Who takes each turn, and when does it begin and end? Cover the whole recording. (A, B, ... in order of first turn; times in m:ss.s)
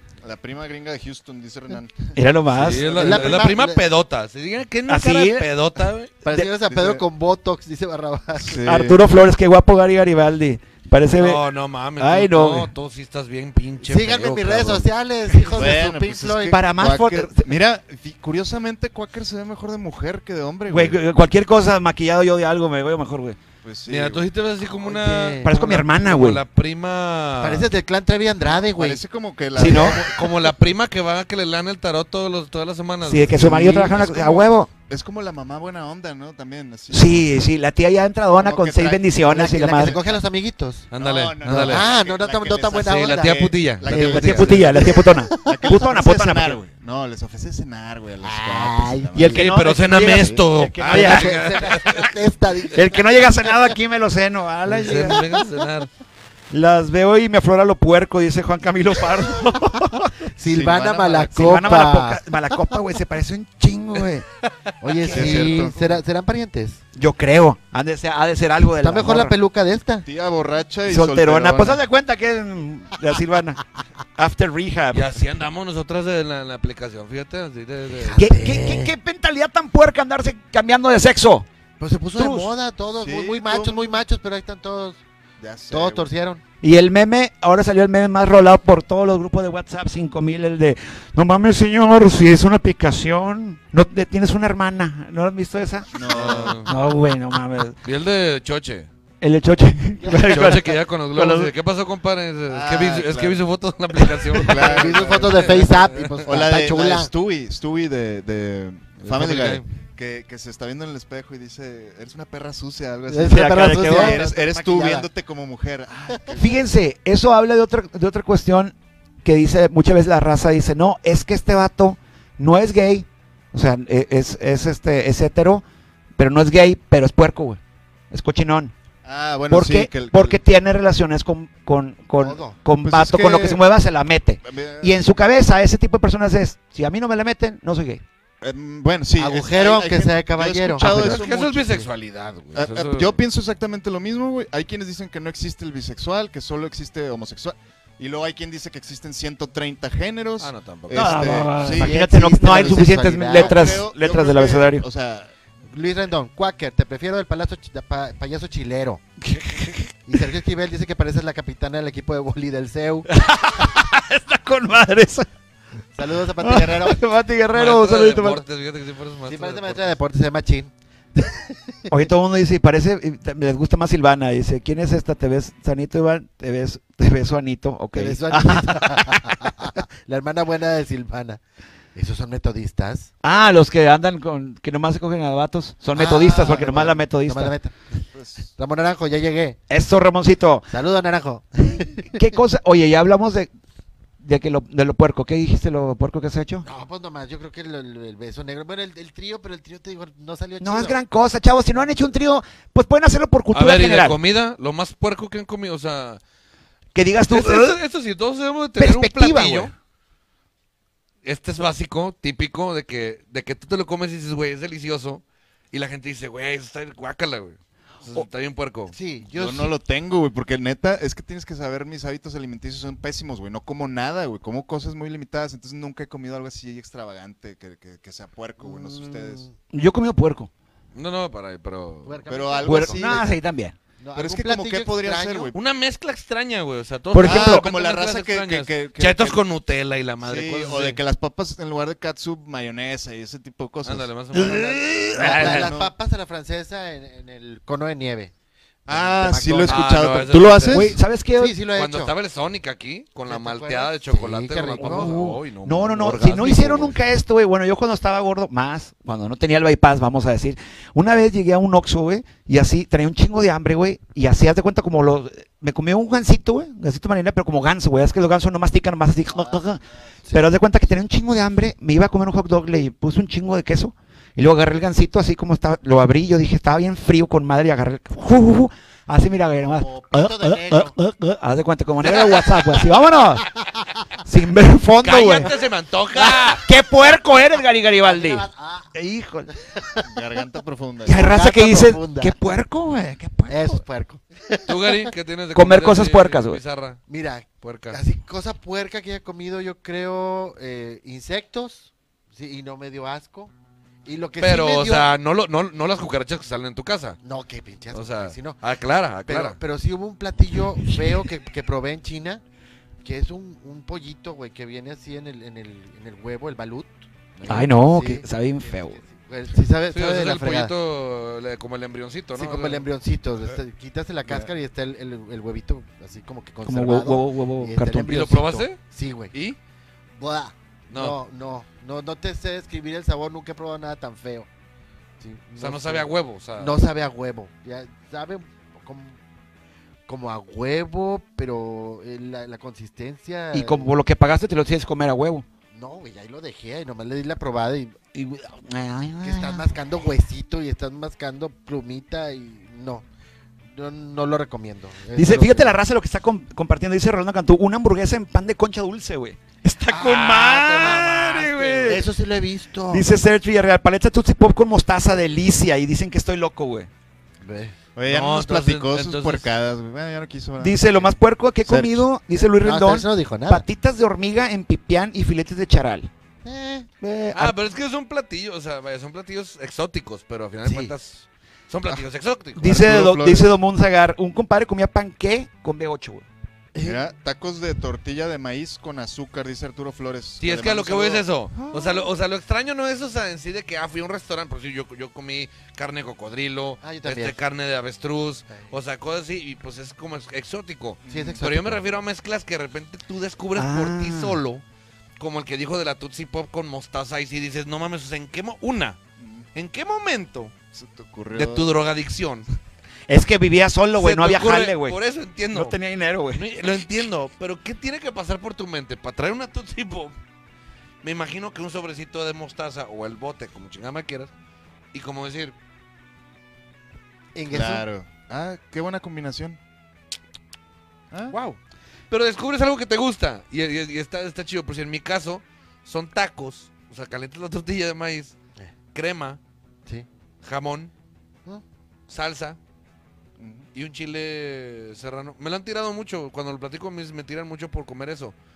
0:00.2-0:03.5 A
0:02.1-0:02.9 B
0:02.5-0:06.2 C
0:02.9-0:03.8 D
0:04.9-0:05.4 B
0:06.2-0:08.6 D
0:06.6-0:07.0 A
0:08.3-0:09.0 A
0:08.6-0:11.4 B
0:11.2-0:14.9 C
0:12.0-0:12.7 B
0:13.8-0:16.6 D
0:15.5-0:21.0 A
0:16.5-0:17.4 B
0:20.7-0:23.4 B
0:23.6-0:24.3 A
0:23.9-0:27.7 C
0:24.8-0:25.5 D
0:25.4-0:26.4 B
0:27.4-0:29.0 D
0:28.5-0:30.1 A
0:29.6-0:30.0 B
0:29.6-0:33.6 C
0:29.7-0:30.4 D
0:33.0-0:34.7 B
0:33.3-0:37.4 A
0:36.9-0:40.0 B
0:38.4-0:39.1 A
0:39.2-0:40.9 D
0:39.8-0:40.2 A
0:40.9-0:41.9 C
0:41.0-0:49.5 A
0:41.5-0:45.7 D
0:42.7-0:44.6 C
0:43.9-0:46.6 B
0:48.2-0:49.4 D
0:49.1-0:51.7 B
0:49.3-0:52.2 C
0:50.8-0:53.5 D
0:52.7-0:55.2 B
0:54.7-0:55.9 C
0:54.7-0:55.4 D
0:56.5-1:00.1 B
1:00.3-1:02.2 D
1:00.4-1:01.5 A
1:01.3-1:04.2 B
1:04.4-1:05.7 C
1:04.8-1:06.8 D
1:05.1-1:05.5 B
1:05.1-1:06.0 A
1:06.9-1:09.3 B
1:08.8-1:10.0 D
1:10.0-1:11.8 A
1:10.9-1:13.6 B
1:14.2-1:15.0 B
1:14.9-1:18.3 C
1:17.9-1:18.9 D
1:18.2-1:21.4 B
1:21.8-1:25.0 D
1:22.2-1:22.5 B
1:23.0-1:24.0 A
1:25.4-1:26.1 A
1:25.7-1:26.4 D
1:26.6-1:35.9 B
1:35.9-1:36.6 A
1:36.1-1:36.7 C
1:36.6-1:37.8 B
1:37.8-1:38.9 C
1:39.2-1:41.5 B
1:40.0-1:40.6 D
1:40.2-1:46.3 C
1:42.5-1:43.4 A
1:44.3-1:45.7 A
1:44.5-1:47.1 D
1:46.2-1:56.6 A
1:49.0-1:49.6 C
1:53.1-1:55.1 D
1:53.2-1:54.2 B
1:56.4-2:05.6 B
2:06.2-2:07.6 B
2:08.1-2:08.7 B
2:09.0-2:10.4 A
2:09.5-2:18.0 B
2:12.2-2:12.6 D
2:12.8-2:13.6 A
2:14.4-2:15.0 A
2:18.4-2:21.9 A
2:19.2-2:21.1 D
2:20.8-2:23.2 C
2:20.8-2:21.2 B
2:22.5-2:32.7 A
2:30.4-2:31.4 C
2:30.9-2:34.8 B
2:31.7-2:33.8 D
2:33.2-2:35.3 A
2:35.7-2:39.0 D
2:39.2-2:39.9 B
2:40.0-2:43.1 D
2:43.1-2:45.3 B
2:45.9-2:47.0 D
2:46.4-2:48.4 B
2:47.5-2:50.0 C
2:49.3-2:51.9 D
2:51.9-2:59.8 B
2:57.9-3:01.4 D
3:01.9-3:03.1 D
3:03.2-3:07.5 B
3:05.9-3:07.7 D
3:08.1-3:08.5 A
3:08.6-3:09.6 D
3:09.7-3:10.6 B
3:10.7-3:12.2 D
3:12.1-3:13.5 B
3:14.2-3:16.6 B
3:16.6-3:21.0 D
3:20.6-3:24.2 B
3:23.5-3:26.2 C
3:26.9-3:27.8 B
3:27.3-3:29.7 C
3:28.8-3:29.7 B
3:31.2-3:38.9 C
3:38.9-3:39.7 D
3:39.3-3:49.4 A
3:48.6-3:49.5 D
3:49.7-3:50.5 B
3:50.9-3:52.3 C
3:52.0-3:53.2 D
3:52.3-3:53.3 A
3:52.6-3:53.8 B
3:54.0-3:55.5 D
3:54.1-3:55.6 A
3:55.5-4:01.0 C
3:57.1-3:57.6 B
3:57.2-3:59.4 A
4:00.2-4:04.1 A
4:03.8-4:05.4 C
4:04.3-4:05.7 B
4:05.2-4:05.9 A
4:05.2-4:08.3 D
4:08.8-4:09.9 D
4:08.9-4:11.0 A
4:09.7-4:10.9 C
4:10.7-4:11.5 B
4:11.4-4:12.1 D
4:11.7-4:17.0 C
4:13.3-4:15.3 D
4:14.8-4:43.5 B
4:39.6-4:40.9 D
4:42.0-4:42.4 D
4:44.2-4:45.5 B
4:45.0-4:46.6 C
4:46.2-4:49.5 B
4:48.0-4:48.9 D
4:49.7-4:50.1 D
4:50.0-4:51.3 A
4:51.0-4:53.8 B
4:51.1-4:52.3 D
4:53.5-4:55.1 D
4:54.6-4:57.0 C
4:55.5-4:56.6 B
4:57.1-5:03.5 D
4:57.6-4:58.0 C
5:04.0-5:05.1 D
5:04.4-5:07.2 C
5:07.2-5:08.6 D
5:07.9-5:09.6 C
5:09.2-5:12.4 D
5:13.0-5:20.7 D
5:17.4-5:19.0 B
5:19.9-5:22.9 C
5:22.3-5:29.3 D
5:26.6-5:28.3 B
5:28.0-5:28.8 C
5:30.2-5:34.5 D
5:30.9-5:31.2 C
5:35.2-5:39.2 D
5:35.6-5:36.8 C
5:40.1-5:43.9 D
5:43.5-5:45.4 B
5:45.7-5:48.0 D
5:48.1-5:49.7 B
5:49.2-5:53.0 D
5:53.7-5:55.8 D
5:55.1-6:02.1 B
5:59.9-6:02.0 C
6:00.6-6:01.0 D
6:01.8-6:03.0 D
6:02.9-6:06.9 B
6:07.4-6:07.8 D
6:08.0-6:12.0 A
6:08.0-6:09.5 C
6:10.6-6:16.1 B
6:12.6-6:13.6 D
6:16.4-6:16.9 D
6:17.0-6:17.6 B
6:17.3-6:22.6 C
6:20.6-6:20.9 D
6:22.6-6:26.2 B
6:22.6-6:23.5 A
6:26.7-6:27.0 D
6:26.8-6:31.2 A
6:30.4-6:44.6 C
6:31.5-6:32.1 B
6:36.8-6:37.4 D
6:41.0-6:41.8 A
6:41.1-6:41.8 D
6:43.6-6:44.4 B
6:45.2-6:49.0 C
6:49.2-6:49.5 A
6:49.5-6:50.5 C
6:50.7-6:51.7 A
6:51.3-6:52.5 C
6:53.1-6:55.0 B
6:54.0-6:55.8 C
6:55.5-6:56.4 B
6:56.3-7:00.1 C
7:01.0-7:04.3 C
7:04.9-7:05.5 C
7:07.3-7:07.9 D
7:07.5-7:09.6 A
7:11.1-7:11.4 A
7:11.3-7:11.6 D
7:12.1-7:18.3 C
7:18.9-7:19.4 C
7:20.4-7:20.9 C
7:22.1-7:22.6 C
7:23.4-7:23.7 A
7:23.7-7:28.3 C